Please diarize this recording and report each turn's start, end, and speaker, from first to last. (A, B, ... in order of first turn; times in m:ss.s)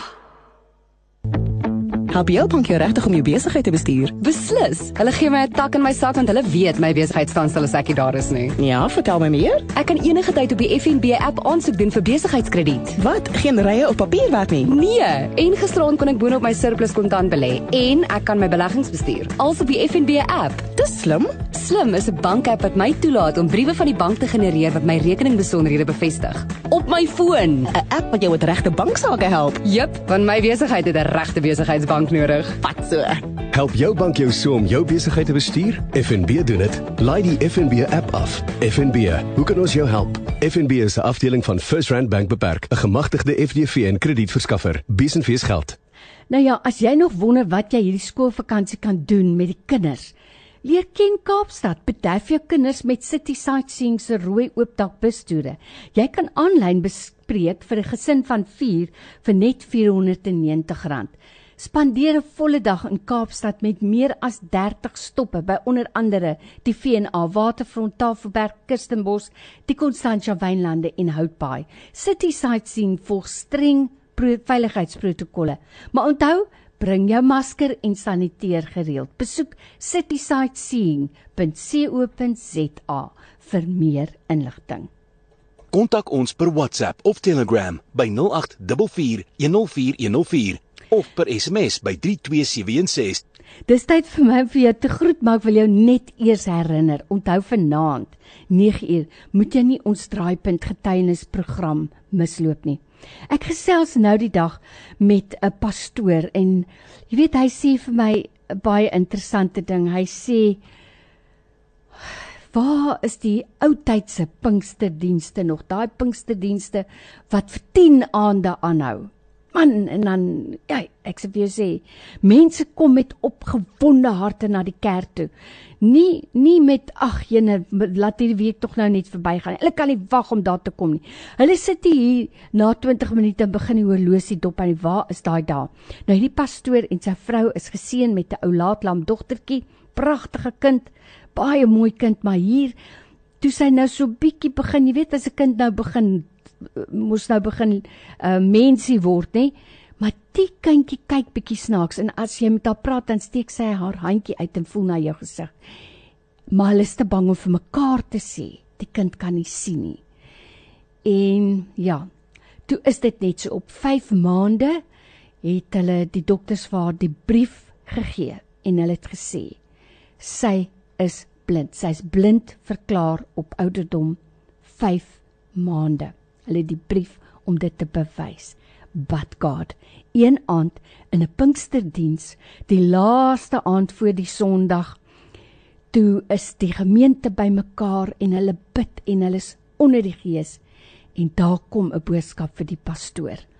0:02.1-0:04.2 A
0:04.2-0:08.6 B
0:08.6-0:09.7 A
0:09.7-0:13.0 B
0:13.0-0:14.7 A
0:14.7-0:20.7 B
0:20.7-0:21.4 A
0:21.4-0:27.6 B
0:27.6-0:29.6 A
0:29.6-0:32.6 B
0:32.6-0:33.2 A
0:33.5-0:45.8 C
0:46.3-1:24.9 D
1:25.7-1:33.2 E
1:33.7-1:50.6 D
1:52.5-2:05.3 D
2:05.8-2:22.7 D
2:23.4-2:35.5 D
2:36.5-2:40.0 D
2:41.0-2:42.1 D
2:42.6-2:44.8 D
2:45.4-2:49.6 D
2:50.2-3:05.0 D
3:05.9-3:10.6 D
3:11.1-3:13.4 D